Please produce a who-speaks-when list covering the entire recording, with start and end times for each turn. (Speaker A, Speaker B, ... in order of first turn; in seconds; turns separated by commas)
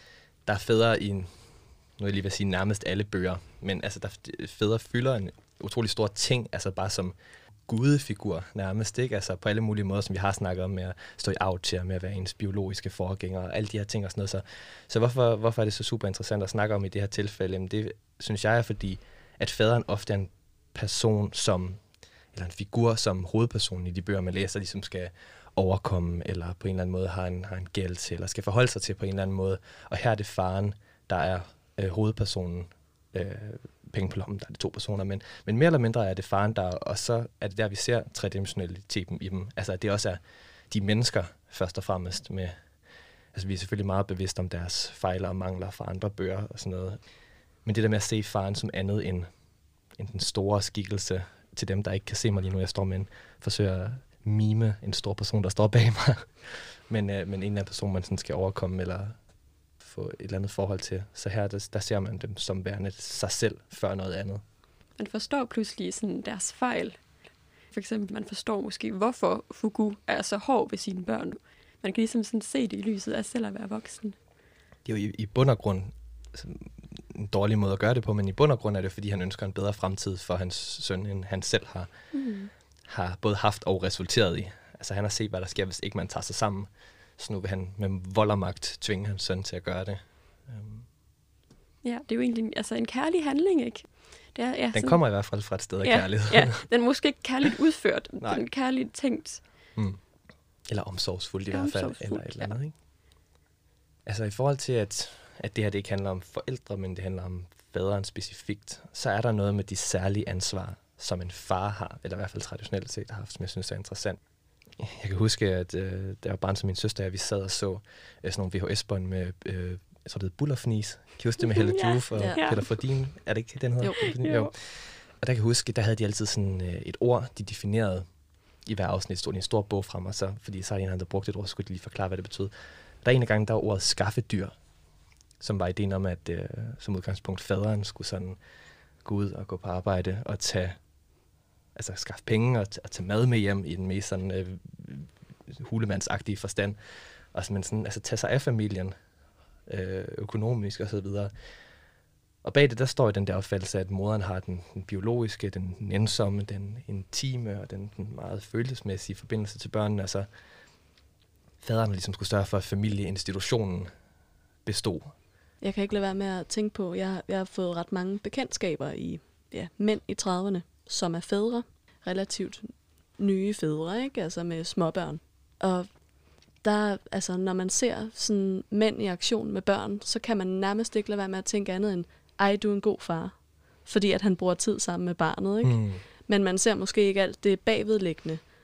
Speaker A: 0.5-7.1, Speaker A: 7.7-21.8, Speaker A: 22.3-42.6, Speaker A: 43.3-47.0, Speaker A: 47.6-49.3, Speaker A: 49.9-59.2, Speaker A: 59.8-64.4, Speaker B: 65.0-67.0, Speaker B: 67.7-74.1, Speaker A: 74.8-81.9, Speaker B: 82.1-82.5, Speaker A: 82.9-90.9, Speaker B: 91.8-99.5, Speaker A: 94.7-96.6, Speaker A: 99.7-100.0, Speaker A: 100.7-102.7, Speaker B: 101.5-102.5, Speaker A: 104.0-114.2, Speaker A: 114.8-128.1, Speaker B: 121.4-122.7, Speaker C: 122.1-122.4, Speaker B: 124.0-124.5, Speaker A: 128.7-134.5, Speaker A: 135.4-138.4, Speaker A: 139.0-140.8, Speaker A: 141.7-148.9, Speaker A: 149.7-151.3, Speaker A: 152.4-160.3, Speaker A: 161.6-163.9, Speaker A: 164.6-165.1, Speaker C: 165.6-176.0, Speaker C: 176.6-188.4, Speaker A: 185.6-186.0